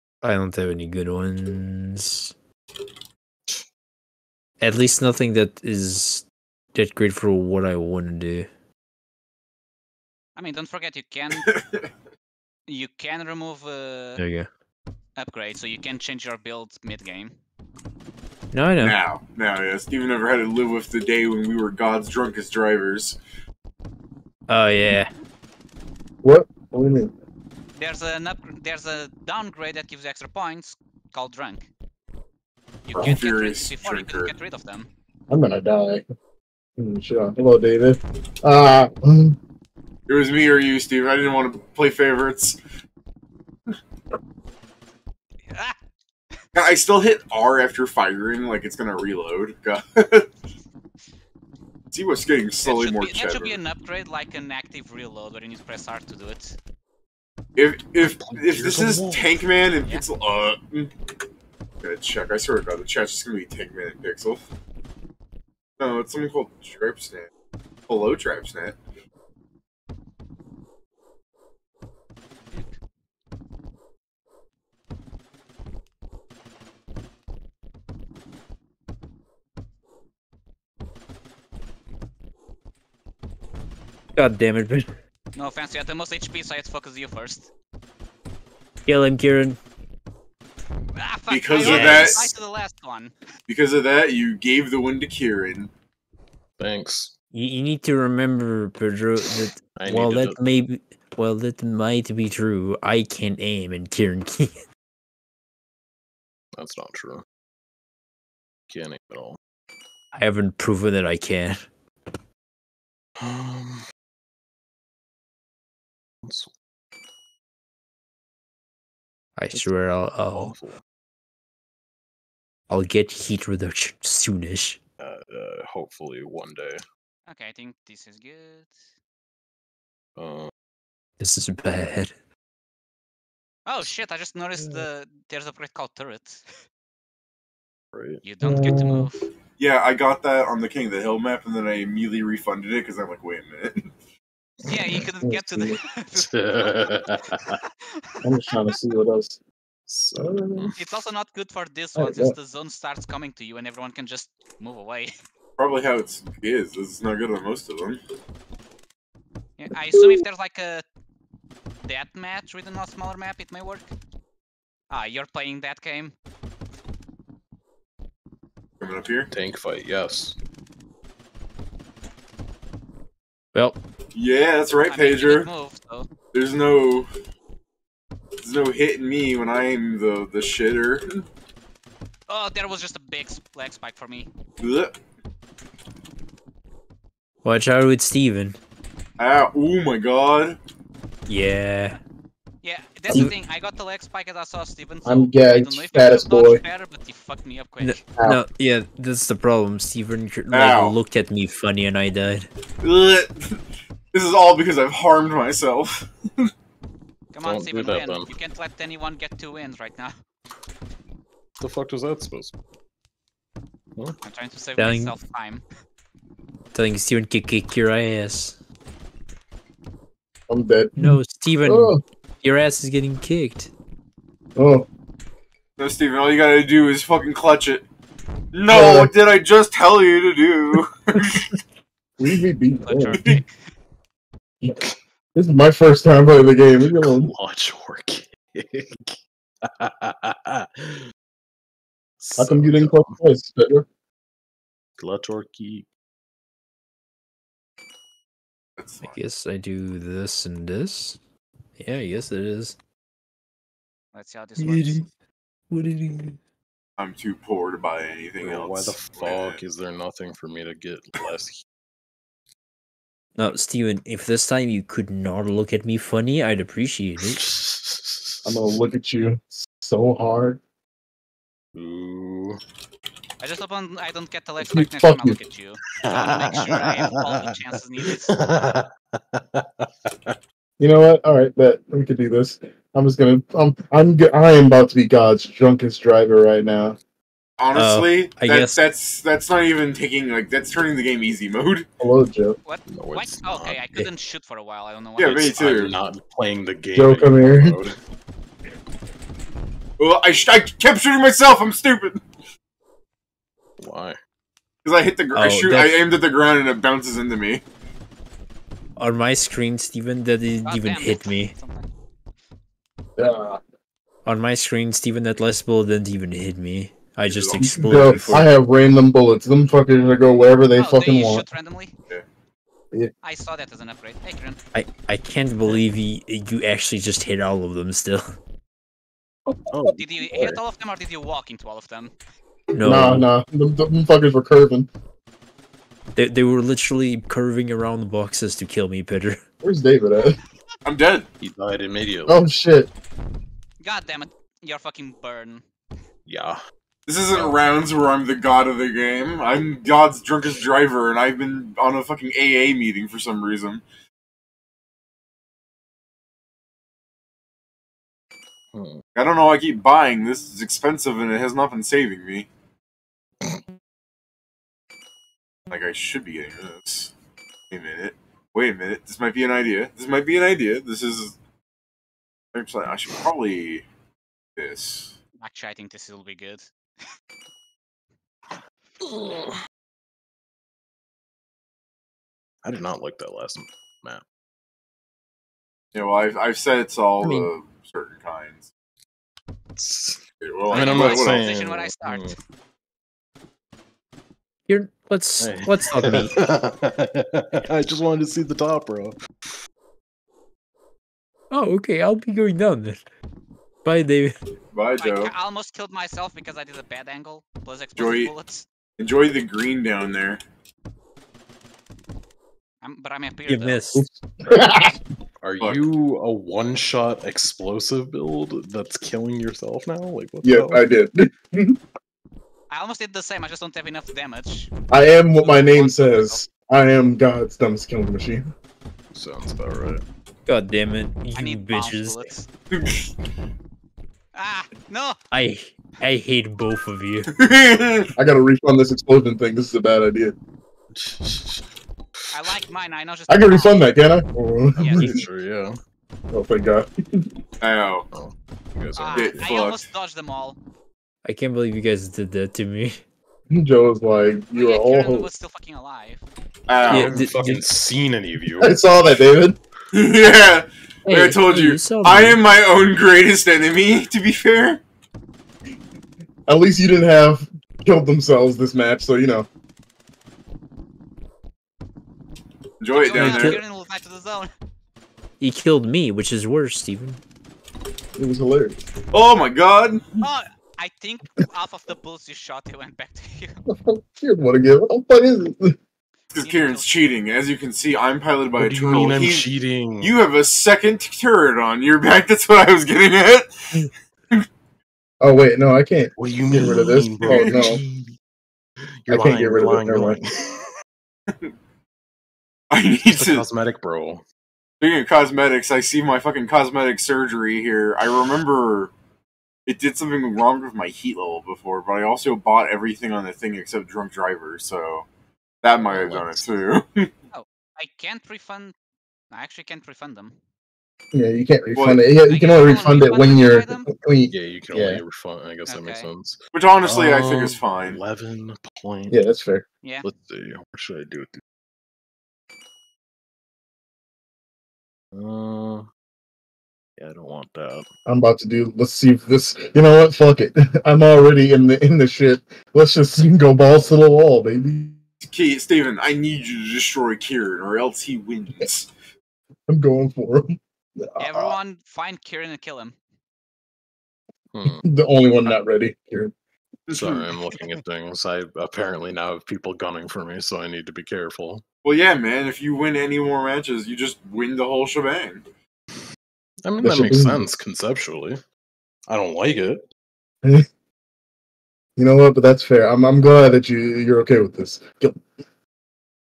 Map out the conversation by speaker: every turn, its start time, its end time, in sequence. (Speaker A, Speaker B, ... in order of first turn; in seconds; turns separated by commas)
Speaker A: 0.2-2.3, Speaker A: 4.6-8.5, Speaker B: 10.3-11.5, Speaker B: 12.7-14.2, Speaker A: 14.2-14.5, Speaker B: 15.2-17.3, Speaker A: 18.5-19.0, Speaker C: 18.8-23.2, Speaker A: 24.5-25.1, Speaker D: 26.2-27.1, Speaker B: 27.7-31.7, Speaker B: 32.9-34.9, Speaker C: 32.9-34.3, Speaker D: 35.3-36.0, Speaker D: 36.8-39.4, Speaker C: 40.1-42.6, Speaker B: 45.5-45.8, Speaker C: 46.5-50.3, Speaker C: 51.9-53.6, Speaker B: 52.6-56.6, Speaker C: 57.5-60.9, Speaker E: 58.0-59.4, Speaker C: 61.8-64.4, Speaker C: 65.8-67.3, Speaker C: 67.9-68.8, Speaker A: 84.2-84.9, Speaker B: 85.3-87.5, Speaker A: 88.8-89.6, Speaker B: 90.9-93.2, Speaker C: 91.3-92.3, Speaker A: 91.6-92.3, Speaker C: 93.5-95.7, Speaker E: 96.6-97.1, Speaker A: 97.3-104.6, Speaker E: 99.3-100.4, Speaker E: 106.5-107.2, Speaker E: 108.7-109.4, Speaker A: 110.1-111.6, Speaker E: 113.2-113.8, Speaker E: 116.2-116.5, Speaker A: 119.4-120.5, Speaker E: 120.3-120.8, Speaker A: 122.7-124.8, Speaker E: 125.0-126.8, Speaker B: 127.2-128.8, Speaker E: 130.2-130.5, Speaker A: 131.2-132.1, Speaker B: 133.7-136.5, Speaker E: 137.9-138.2, Speaker B: 138.2-139.3, Speaker D: 138.4-139.1, Speaker C: 139.6-143.9, Speaker E: 144.6-145.0, Speaker B: 144.6-148.7, Speaker D: 145.2-145.8, Speaker E: 146.2-147.6, Speaker D: 148.2-149.4, Speaker E: 149.9-150.8, Speaker D: 150.2-150.7, Speaker B: 150.8-155.1, Speaker D: 151.9-152.3, Speaker C: 155.6-158.0, Speaker B: 159.6-160.8, Speaker B: 161.8-163.9, Speaker B: 164.9-166.1, Speaker C: 168.8-169.3, Speaker E: 169.3-170.4, Speaker C: 174.1-175.5, Speaker B: 174.8-176.1, Speaker C: 176.3-177.1, Speaker C: 178.4-181.2, Speaker B: 182.3-184.3, Speaker C: 184.6-184.9, Speaker A: 187.4-188.6, Speaker C: 189.2-190.6, Speaker A: 191.3-192.0, Speaker B: 192.6-198.0, Speaker D: 195.1-196.6, Speaker A: 197.8-202.5, Speaker C: 200.5-201.0, Speaker C: 202.8-203.6, Speaker C: 204.1-206.5, Speaker B: 207.3-210.1, Speaker E: 207.4-208.3, Speaker E: 211.6-212.5, Speaker B: 214.2-215.6, Speaker A: 214.8-215.1, Speaker A: 216.7-218.6, Speaker D: 220.5-222.0, Speaker A: 221.0-223.7, Speaker D: 224.6-224.9, Speaker C: 225.8-227.8, Speaker C: 228.5-231.5, Speaker D: 228.7-229.1, Speaker D: 232.2-233.3, Speaker B: 232.8-233.7, Speaker D: 235.3-237.3, Speaker E: 236.8-241.1, Speaker E: 242.2-243.2, Speaker D: 242.4-243.8, Speaker E: 245.0-245.9, Speaker C: 248.8-249.2, Speaker A: 249.0-251.2, Speaker A: 251.8-252.8, Speaker B: 254.1-255.1, Speaker A: 254.6-255.1, Speaker A: 255.7-256.4, Speaker C: 257.0-259.6, Speaker E: 258.4-261.6, Speaker A: 263.4-267.4, Speaker E: 267.2-268.7, Speaker D: 268.4-270.6, Speaker E: 271.7-272.6, Speaker B: 273.4-278.3, Speaker D: 274.6-275.4, Speaker E: 276.0-277.5, Speaker E: 278.1-280.4, Speaker D: 280.8-287.0, Speaker C: 287.6-291.9, Speaker A: 287.7-288.8, Speaker D: 292.0-292.6, Speaker B: 292.6-295.5, Speaker E: 292.9-293.9, Speaker C: 295.2-296.0, Speaker E: 295.2-297.9, Speaker D: 296.9-297.8, Speaker C: 300.0-302.2, Speaker E: 303.8-304.2, Speaker C: 304.8-307.6, Speaker A: 305.3-306.0, Speaker A: 309.0-311.5, Speaker B: 310.6-311.9, Speaker D: 313.2-313.6, Speaker A: 314.2-318.5, Speaker C: 317.3-318.4, Speaker D: 317.6-321.4, Speaker B: 320.8-321.9, Speaker B: 323.2-324.6, Speaker A: 324.7-328.4, Speaker E: 329.7-330.6, Speaker B: 329.9-332.1, Speaker A: 332.7-333.3, Speaker D: 332.8-334.9, Speaker A: 336.1-339.4, Speaker D: 339.6-340.4, Speaker C: 340.8-341.3, Speaker E: 341.4-342.4, Speaker D: 342.3-342.9, Speaker B: 343.8-345.6, Speaker E: 346.3-346.6, Speaker C: 347.1-353.8, Speaker E: 358.7-359.0, Speaker C: 359.1-362.5, Speaker C: 365.7-367.1, Speaker C: 367.7-371.4, Speaker C: 372.5-373.9, Speaker C: 374.6-375.1, Speaker B: 375.4-376.7, Speaker E: 379.0-379.6, Speaker E: 382.6-384.2, Speaker C: 385.9-388.7, Speaker A: 387.2-387.5, Speaker E: 389.8-392.4, Speaker C: 390.4-391.5, Speaker B: 390.7-392.4, Speaker A: 394.7-396.4, Speaker E: 395.4-399.1, Speaker A: 401.5-403.0, Speaker A: 403.8-404.3, Speaker C: 404.7-405.3, Speaker B: 405.0-408.6, Speaker C: 407.9-408.3, Speaker C: 409.0-410.4, Speaker B: 412.8-413.8, Speaker A: 413.5-414.1, Speaker D: 413.9-415.0, Speaker E: 415.4-420.8, Speaker C: 415.6-415.8, Speaker D: 420.4-421.8, Speaker B: 422.7-424.7, Speaker D: 424.9-428.5, Speaker B: 425.4-426.4, Speaker E: 429.1-430.0, Speaker A: 430.4-432.3, Speaker B: 431.3-432.5, Speaker C: 432.7-433.1, Speaker B: 434.3-435.2, Speaker A: 435.3-437.3, Speaker C: 437.3-438.1, Speaker D: 438.2-440.4, Speaker E: 440.9-441.6, Speaker B: 442.3-443.9, Speaker D: 443.3-445.2, Speaker B: 444.8-445.1, Speaker E: 444.8-445.8, Speaker D: 446.3-447.3, Speaker C: 447.6-448.1, Speaker E: 448.1-449.5, Speaker B: 448.9-450.6, Speaker C: 449.1-449.9, Speaker A: 451.2-453.0, Speaker D: 453.5-455.3, Speaker B: 454.5-456.2, Speaker C: 456.7-457.2, Speaker E: 456.9-458.8, Speaker A: 456.9-457.6, Speaker D: 458.6-459.6, Speaker C: 459.9-464.8, Speaker A: 461.1-462.4, Speaker D: 466.5-469.5, Speaker C: 472.8-473.6, Speaker B: 472.9-474.5, Speaker A: 473.1-473.6, Speaker A: 475.4-477.2, Speaker D: 478.2-478.8, Speaker C: 479.1-480.1, Speaker B: 480.2-483.6, Speaker D: 483.7-485.8, Speaker C: 486.3-489.5, Speaker B: 486.3-486.9, Speaker E: 488.6-490.1, Speaker C: 490.0-493.7, Speaker D: 495.2-497.8, Speaker E: 496.2-498.1, Speaker C: 497.2-497.7, Speaker E: 499.0-500.6, Speaker D: 499.1-500.2, Speaker C: 502.7-503.4, Speaker E: 503.1-504.2, Speaker C: 504.8-508.9, Speaker C: 509.6-515.0, Speaker C: 515.6-517.1, Speaker E: 515.9-516.4, Speaker B: 517.3-518.7, Speaker B: 519.3-520.4, Speaker D: 521.1-525.0, Speaker C: 521.7-522.0, Speaker B: 522.2-523.9, Speaker E: 524.3-529.2, Speaker B: 525.6-526.1, Speaker C: 526.5-528.0, Speaker D: 529.1-529.6, Speaker E: 530.0-531.4, Speaker E: 535.1-535.9, Speaker E: 537.0-537.8, Speaker D: 538.0-545.0, Speaker C: 545.2-548.9, Speaker D: 549.7-551.6, Speaker B: 551.2-553.0, Speaker E: 554.5-554.8, Speaker D: 554.6-556.3, Speaker C: 556.9-557.4, Speaker E: 556.9-561.6, Speaker C: 561.8-565.4, Speaker E: 566.6-568.4, Speaker D: 566.8-567.5, Speaker E: 569.1-569.8, Speaker D: 572.0-575.2